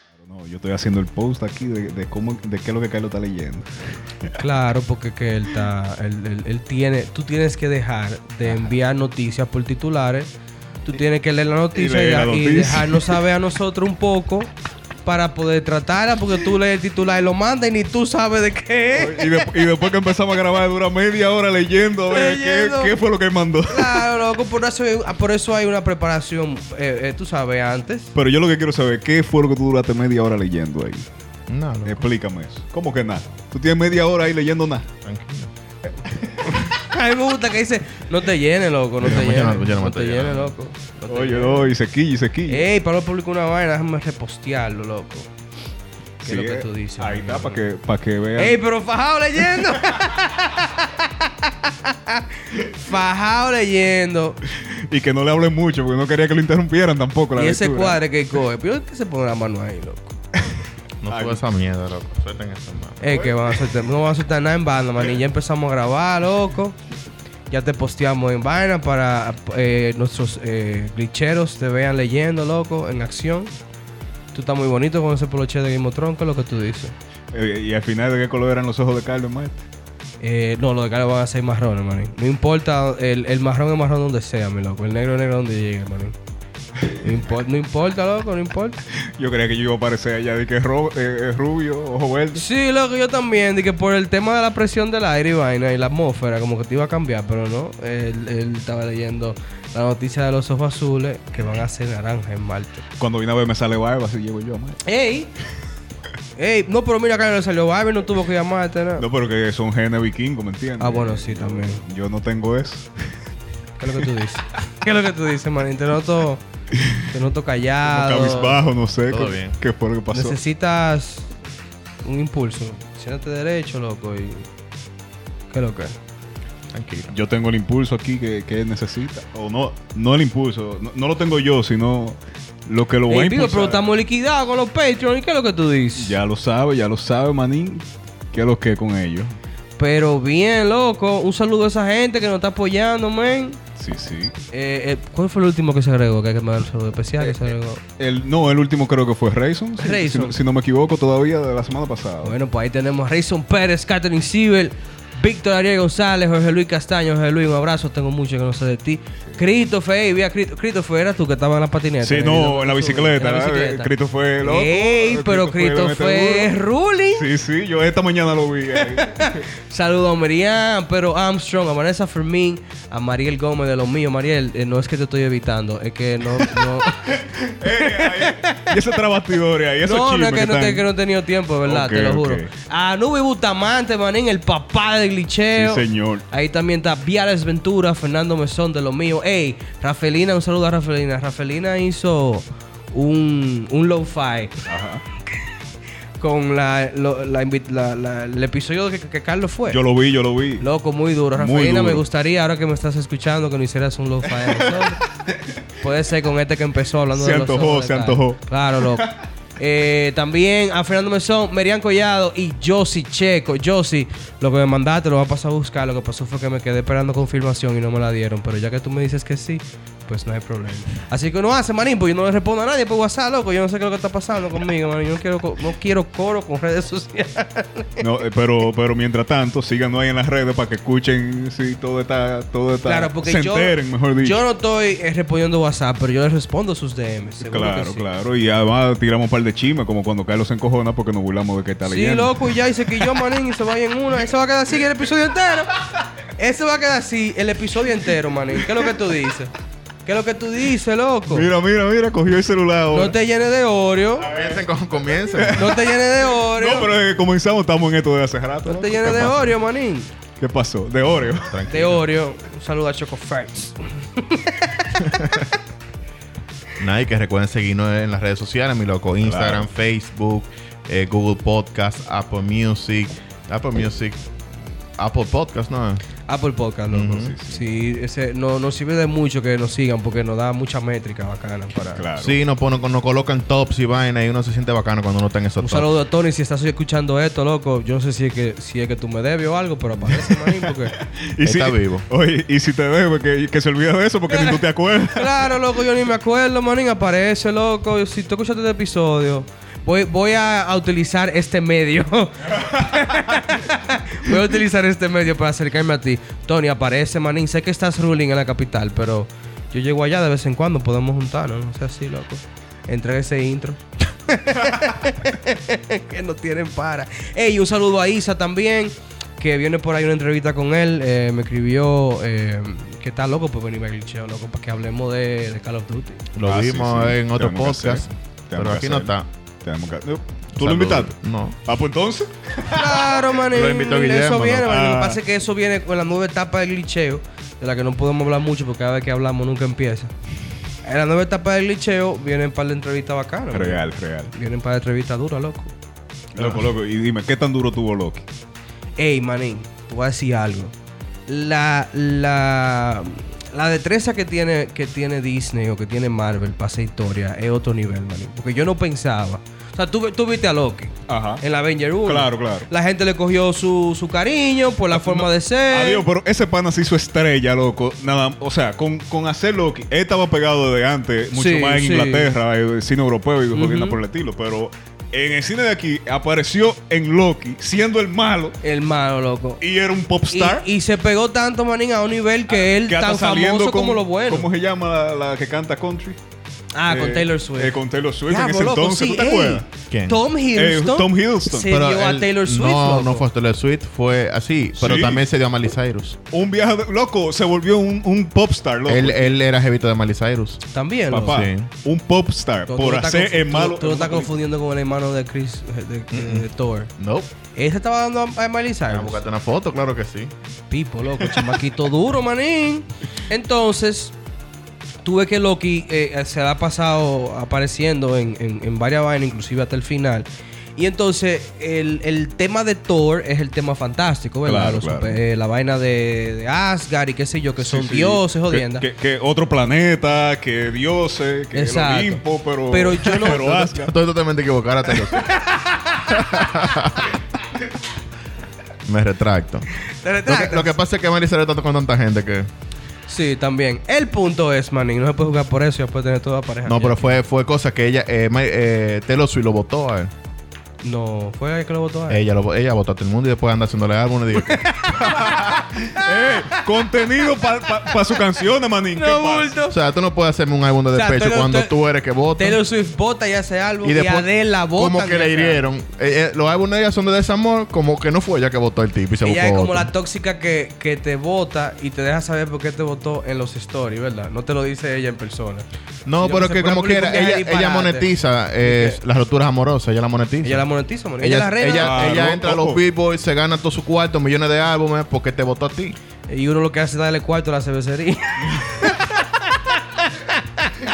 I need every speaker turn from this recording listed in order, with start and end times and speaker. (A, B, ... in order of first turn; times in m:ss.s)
0:00.2-0:03.7 A
0:04.4-0:10.3 B
0:10.8-0:14.5 B
0:11.7-0:13.2 A
0:15.0-0:19.5 B
0:18.9-0:24.1 A
0:22.1-0:22.9 B
0:23.7-0:28.1 B
0:28.1-0:31.0 A
0:31.5-0:32.1 C
0:31.8-0:34.9 A
0:35.0-0:35.5 C
0:36.0-0:36.6 A
0:36.7-0:41.7 B
0:39.0-0:40.5 C
0:41.1-0:42.6 A
0:42.5-0:45.3 B
0:46.2-0:48.6 A
0:46.2-0:47.6 B
0:48.4-0:54.4 B
0:54.6-0:58.0 A
0:57.4-1:00.2 B
1:01.0-1:03.3 C
1:01.1-1:01.4 A
1:03.0-1:06.8 B
1:07.5-1:13.5 B
1:14.3-1:16.9 B
1:17.3-1:19.6 A
1:20.2-1:26.2 B
1:27.0-1:28.8 B
1:29.2-1:32.4 A
1:32.3-1:42.8 B
1:43.0-1:44.8 A
1:44.8-1:45.3 B
1:46.4-1:49.0 B
1:49.0-1:52.9 A
1:50.8-1:51.8 B
1:53.8-1:56.4 B
1:57.0-1:58.6 B
1:57.8-2:00.4 A
1:59.1-1:59.6 C
2:00.1-2:01.3 B
2:02.0-2:04.5 B
2:05.5-2:06.0 B
2:06.7-2:07.1 C
2:07.1-2:13.8 A
2:13.1-2:16.2 B
2:16.0-2:19.3 A
2:19.8-2:23.6 B
2:23.8-2:24.3 A
2:24.5-2:27.8 B
2:27.2-2:32.3 A
2:29.8-2:30.4 B
2:32.2-2:47.2 B
2:42.0-2:46.5 A
2:47.1-2:49.4 A
2:48.7-2:57.1 B
2:56.9-3:00.8 A
2:57.7-2:58.7 B
2:59.8-3:14.6 B
3:01.6-3:02.5 A
3:05.5-3:06.2 A
3:14.6-3:15.0 A
3:16.2-3:19.8 B
3:19.7-3:20.6 A
3:20.6-3:25.0 B
3:21.3-3:22.0 A
3:24.4-3:25.0 A
3:25.8-3:29.1 B
3:27.1-3:29.1 A
3:29.6-3:48.0 B
3:48.0-3:54.4 A
3:52.8-3:58.0 B
3:57.4-4:03.2 A
4:01.8-4:05.8 B
4:06.4-4:09.5 B
4:10.0-4:11.5 B
4:11.3-4:13.1 A
4:12.9-4:14.3 B
4:14.2-4:15.8 C
4:15.3-4:19.5 A
4:15.5-4:16.9 B
4:18.6-4:20.1 B
4:20.4-4:21.6 A
4:21.2-4:22.0 C
4:21.7-4:25.3 B
4:25.0-4:25.5 C
4:26.8-4:34.3 C
4:29.2-4:29.6 A
4:35.0-4:36.0 C
4:36.3-4:42.0 B
4:36.9-4:37.3 C
4:37.2-4:37.6 A
4:42.0-4:42.4 A
4:42.2-4:45.9 C
4:45.6-4:50.9 B
4:50.1-4:55.5 A
4:51.4-4:52.0 C
4:54.3-4:54.6 B
4:55.1-5:26.2 B
5:26.3-5:29.2 C
5:26.4-5:29.1 A
5:29.6-5:33.2 A
5:30.6-5:31.6 C
5:32.7-5:40.1 B
5:33.4-5:34.7 C
5:34.6-5:35.2 A
5:40.8-5:43.8 B
5:43.5-5:44.3 A
5:44.3-5:45.7 B
5:46.3-5:48.2 A
5:46.4-5:46.6 B
5:49.0-5:50.7 B
5:51.3-6:06.0 B
6:01.1-6:01.4 A
6:02.0-6:02.6 A
6:04.9-6:18.6 A
6:11.3-6:12.3 B
6:13.5-6:14.0 B
6:18.6-6:19.6 B
6:19.6-6:20.6 A
6:20.3-6:24.5 B
6:22.5-6:26.2 A
6:26.7-6:27.8 B
6:26.9-6:29.7 A
6:28.3-6:33.2 B
6:29.9-6:30.2 C
6:30.5-6:31.7 A
6:31.6-6:36.2 C
6:34.8-6:35.2 A
6:36.3-6:39.3 A
6:38.9-6:40.6 C
6:40.7-6:41.4 B
6:41.1-6:44.3 A
6:41.2-6:41.7 C
6:42.7-6:46.9 B
6:46.1-6:47.3 C
6:47.5-6:49.2 B
6:48.9-6:50.3 C
6:50.7-6:54.1 B
6:55.0-7:08.8 B
7:04.4-7:05.2 A
7:07.6-7:13.9 A
7:11.5-7:13.8 B
7:13.8-7:15.3 C
7:15.2-7:16.5 B
7:16.1-7:17.2 C
7:18.8-7:19.6 C
7:19.8-7:20.7 B
7:20.2-7:22.5 C
7:23.1-7:27.1 B
7:26.6-7:30.1 C
7:30.8-7:32.2 B
7:32.1-7:35.6 C
7:34.4-7:36.6 B
7:35.8-7:39.5 A
7:37.7-7:38.0 B
7:38.9-7:39.8 B
7:39.7-7:42.6 C
7:40.9-7:41.7 B
7:42.4-7:45.6 B
7:43.8-7:49.9 C
7:49.2-7:55.6 B
7:56.0-8:00.6 C
7:56.2-7:58.1 B
7:58.6-7:59.0 B
8:00.4-8:02.2 B
8:01.2-8:06.0 C
8:01.8-8:02.8 A
8:06.3-8:10.7 B